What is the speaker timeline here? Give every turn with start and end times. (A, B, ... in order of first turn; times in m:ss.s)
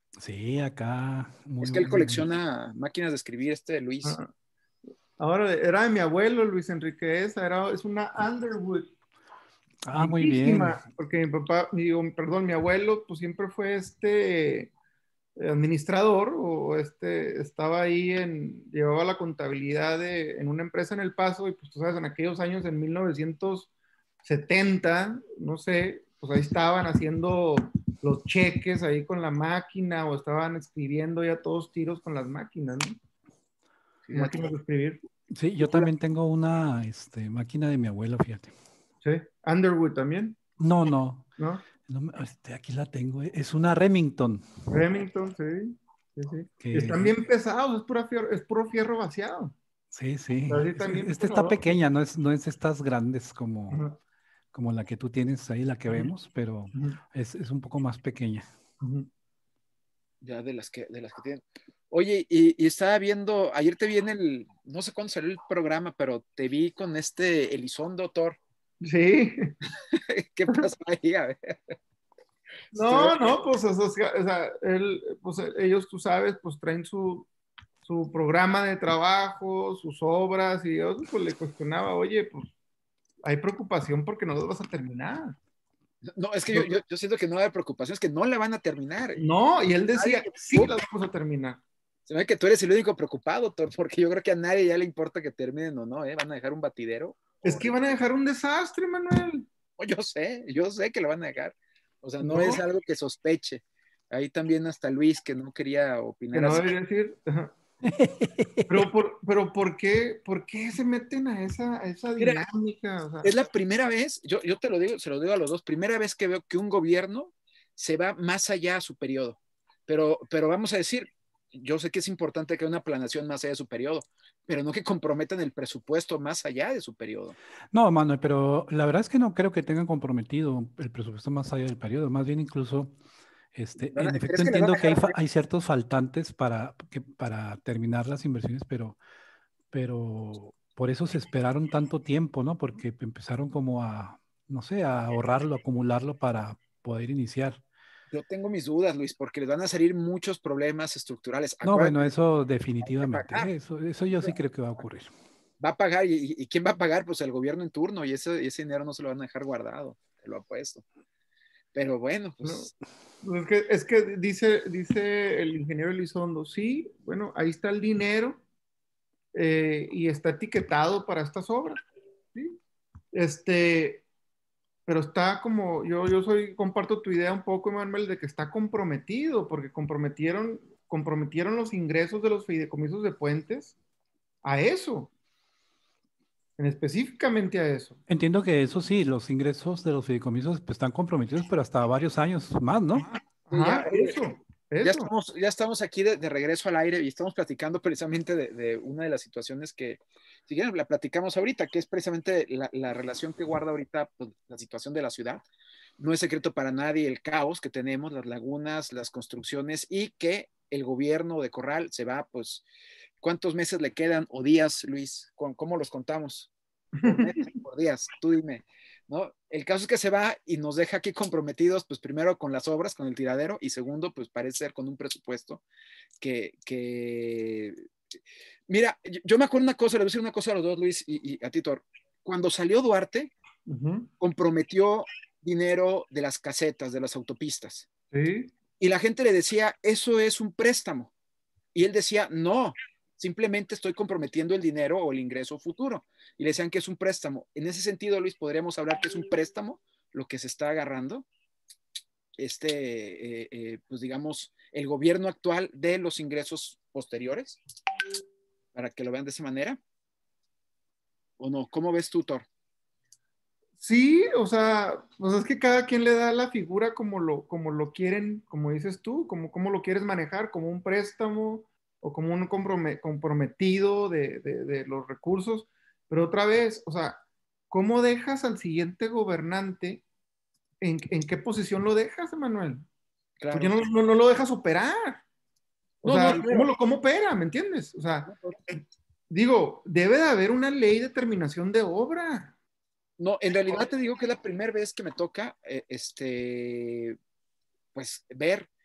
0:00.2-0:02.3 A
0:01.6-0:04.2 B
0:04.0-0:04.3 C
0:05.2-0:08.9 C
0:09.8-0:10.8 A
0:10.0-0:14.7 C
0:15.4-0:23.7 C
0:24.2-0:33.0 C
0:34.1-0:34.5 B
0:34.1-0:35.0 C
0:35.3-0:38.5 A
0:35.6-0:35.9 C
0:39.0-0:40.4 C
0:40.6-0:41.3 A
0:41.4-0:41.6 C
0:41.9-0:44.4 A
0:44.7-0:49.6 C
0:46.6-0:47.1 A
0:49.9-0:53.8 A
0:50.5-0:51.7 C
0:53.7-0:54.0 C
0:54.5-0:58.4 A
0:56.7-0:57.0 C
0:58.8-0:59.1 C
1:00.2-1:08.4 B
1:08.8-1:09.5 C
1:09.9-1:11.8 B
1:12.7-1:17.3 C
1:12.8-1:13.4 B
1:17.8-1:22.5 C
1:23.2-1:25.4 C
1:26.0-1:29.2 B
1:29.2-1:31.6 C
1:30.0-1:30.7 B
1:32.1-1:37.7 B
1:37.4-1:39.5 C
1:39.8-1:46.7 B
1:42.2-1:42.6 C
1:46.3-1:47.5 C
1:47.9-1:48.9 A
1:48.7-1:53.3 C
1:52.2-1:52.4 B
1:53.2-2:07.4 B
2:07.7-2:12.9 A
2:13.6-2:19.0 A
2:13.9-2:15.2 B
2:19.7-2:27.6 A
2:28.1-2:32.1 B
2:31.6-2:35.1 A
2:32.8-2:33.5 B
2:35.6-2:40.8 B
2:41.7-2:42.7 B
2:42.4-2:42.7 C
2:43.2-2:48.4 C
2:49.3-2:51.8 C
2:53.1-2:54.0 C
2:54.9-3:03.8 C
3:04.4-3:05.1 C
3:06.6-3:08.0 C
3:08.1-3:13.1 A
3:12.9-3:15.1 C
3:13.5-3:14.2 B
3:14.8-3:25.4 B
3:26.0-3:32.6 B
3:33.2-3:36.5 B
3:37.0-3:37.6 C
3:37.0-3:45.6 B
3:46.2-3:47.8 B
3:48.7-3:53.3 B
3:53.7-3:54.1 C
3:54.2-3:57.9 B
3:58.1-3:58.5 C
3:58.8-4:01.1 B
4:01.7-4:11.3 B
4:12.4-4:17.6 B
4:18.8-4:19.8 B
4:21.4-4:22.5 B
4:23.8-4:40.0 C
4:40.8-4:42.9 C
4:43.4-4:43.8 B
4:43.5-4:45.2 C
4:46.0-4:46.7 B
4:46.0-4:48.3 C
4:48.3-4:48.8 B
4:49.3-4:52.5 C
4:53.2-4:57.2 B
4:57.9-4:58.7 B